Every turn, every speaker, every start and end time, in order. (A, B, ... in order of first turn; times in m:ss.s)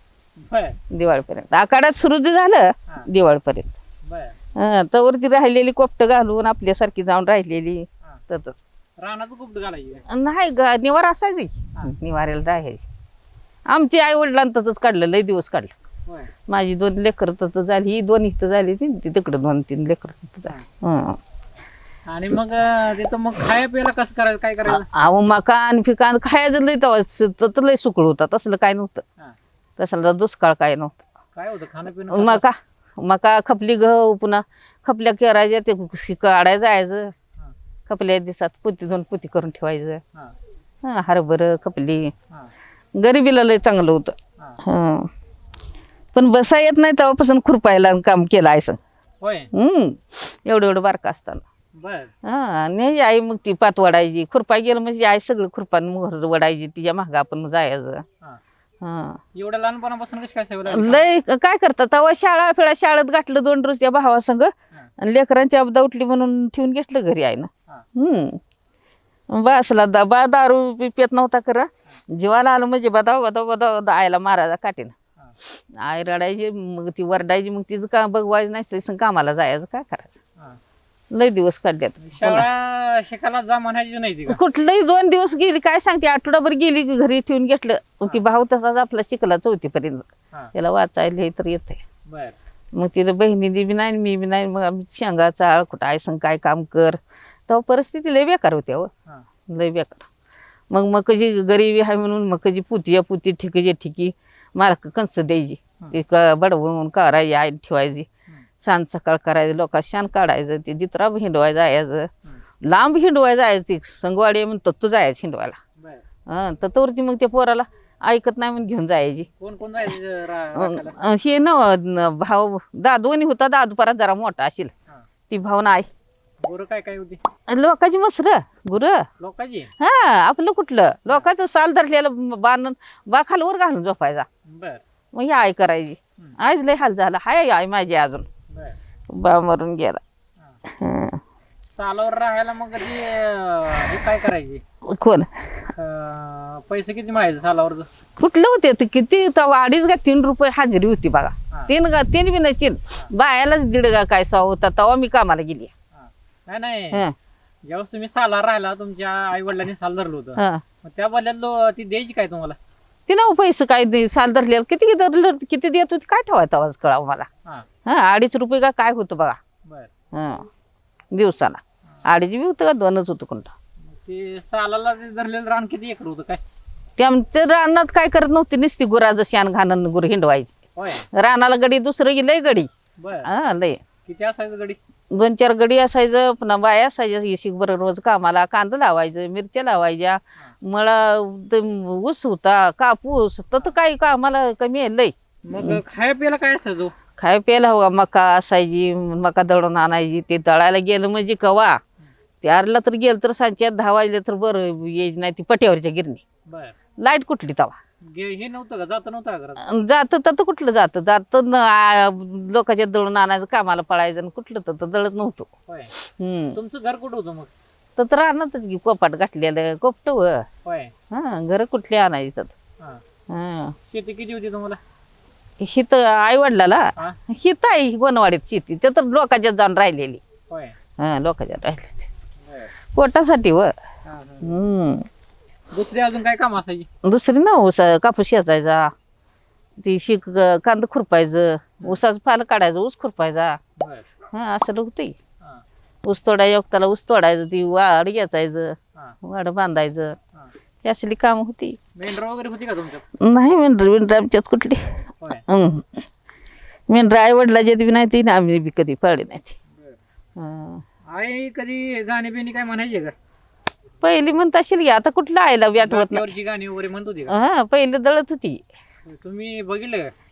0:00.4-0:00.8 A
0:00.9-0:03.8 B
0:04.0-0:04.3 A
0:04.6-0:08.6 B
0:09.0-0:10.0 A
0:10.1-0:12.8 B
0:13.7-0:15.7 B
0:16.5-0:21.2 B
0:22.1-0:24.9 A
0:24.7-0:29.0 B
0:29.8-0:31.0 B
0:31.3-0:32.4 A
0:32.1-0:37.1 B
0:37.9-0:40.0 B
0:40.8-0:42.1 B
0:42.9-0:45.1 B
0:46.1-0:48.8 B
0:49.2-0:49.5 A
0:49.5-0:51.4 B
0:51.8-0:52.1 A
0:52.2-0:58.0 B
0:58.8-0:59.2 B
0:59.3-1:01.1 A
1:00.7-1:08.4 B
1:09.3-1:20.2 B
1:21.1-1:22.4 B
1:22.0-1:24.4 A
1:24.3-1:31.8 B
1:32.1-1:32.3 A
1:32.7-1:38.9 B
1:39.5-1:40.1 B
1:40.7-1:48.1 B
1:48.6-1:52.1 B
1:52.6-1:55.6 B
1:55.8-1:56.0 A
1:56.3-1:59.3 B
1:59.4-2:01.0 A
2:00.5-2:04.7 B
2:05.3-2:05.9 B
2:06.4-2:07.2 A
2:07.5-2:09.1 B
2:09.2-2:09.7 A
2:09.8-2:14.2 B
2:14.5-2:14.8 A
2:15.1-2:18.3 B
2:18.5-2:18.8 A
2:19.1-2:20.0 B
2:20.7-2:21.2 B
2:21.7-2:24.6 A
2:24.8-2:25.7 B
2:25.7-2:27.9 A
2:28.2-2:35.7 B
2:35.9-2:37.0 A
2:37.6-2:42.6 A
2:40.4-2:40.6 B
2:43.1-2:47.3 B
2:47.8-2:49.4 B
2:49.6-2:49.9 A
2:50.1-2:50.5 B
2:51.1-2:53.5 B
2:53.9-2:56.4 A
2:57.0-3:00.6 B
3:00.8-3:01.1 A
3:01.1-3:02.7 B
3:03.0-3:03.3 A
3:03.2-3:03.8 B
3:04.0-3:04.8 A
3:05.1-3:15.8 B
3:15.5-3:16.9 A
3:17.2-3:21.8 B
3:22.4-3:26.2 B
3:26.5-3:26.7 A
3:27.0-3:27.8 B
3:28.0-3:29.6 A
3:29.6-3:36.6 B
3:35.7-3:35.9 A
3:36.5-3:37.5 A
3:38.0-3:40.5 B
3:40.6-3:40.9 A
3:41.1-3:42.5 B
3:43.3-3:43.8 B
3:43.9-3:44.8 A
3:45.6-3:50.2 B
3:50.5-3:50.7 A
3:51.0-3:52.1 B
3:52.4-3:52.7 A
3:52.9-3:53.7 B
3:54.0-3:54.5 A
3:54.4-3:55.0 B
3:55.7-3:56.9 A
3:57.0-3:58.9 B
3:59.8-4:03.6 B
4:03.8-4:04.0 A
4:04.3-4:05.2 B
4:06.0-4:10.2 B
4:10.8-4:11.8 B
4:11.9-4:13.0 A
4:13.2-4:16.0 B
4:16.9-4:19.6 B
4:19.7-4:20.0 A
4:20.4-4:20.8 B
4:21.1-4:23.1 A
4:24.0-4:26.3 B
4:25.8-4:27.4 A
4:27.3-4:28.6 B
4:29.1-4:30.1 A